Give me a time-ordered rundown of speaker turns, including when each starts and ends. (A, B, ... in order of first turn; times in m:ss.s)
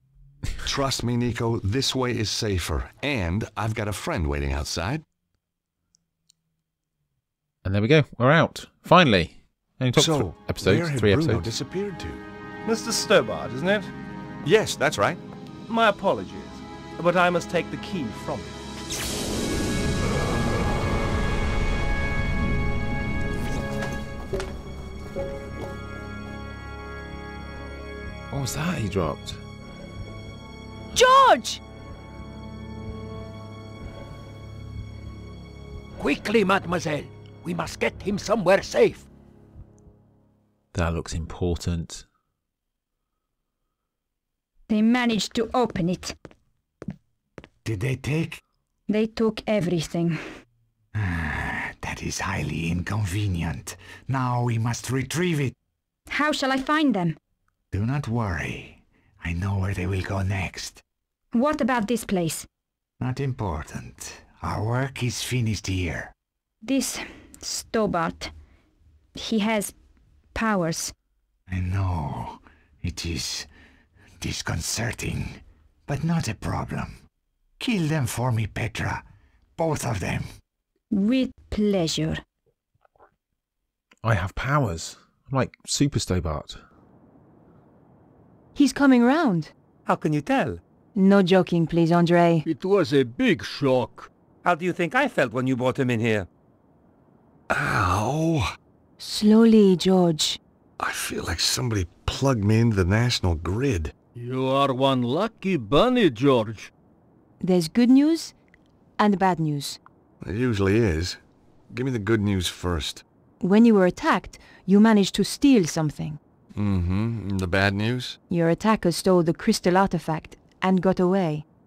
0:00.6-0:05.0 A
0:07.6-0:11.5 B
0:10.0-0:12.2 A
0:12.6-0:13.9 C
0:14.4-0:15.2 A
0:15.7-0:18.6 C
0:28.3-0:29.4 B
0:30.9-0:31.6 D
0:36.0-0:39.1 E
0:40.7-0:42.0 B
0:44.7-0:46.2 F
0:47.6-0:48.4 G
0:48.9-0:50.2 F
0:51.0-0:55.5 G
0:56.1-0:57.2 F
0:57.7-1:00.8 G
1:01.3-1:02.5 F
1:03.0-1:06.1 G
1:06.6-1:08.3 F
1:09.2-1:09.7 F
1:10.3-1:10.9 F
1:11.5-1:13.5 G
1:14.2-1:17.0 G
1:17.6-1:19.0 G
1:19.6-1:20.3 G
1:20.9-1:22.2 F
1:24.0-1:26.6 B
1:28.6-1:29.5 D
1:29.9-1:30.6 C
1:31.0-1:32.4 D
1:32.4-1:34.1 E
1:34.4-1:36.3 C
1:37.5-1:38.6 A
1:39.0-1:40.4 D
1:40.8-1:43.9 A
1:44.2-1:46.7 E
1:47.4-1:48.3 D
1:49.0-1:49.8 D
1:50.2-1:51.2 A
1:51.7-1:53.0 A
1:53.4-1:56.2 D
1:56.6-1:58.2 A
1:58.3-2:01.4 D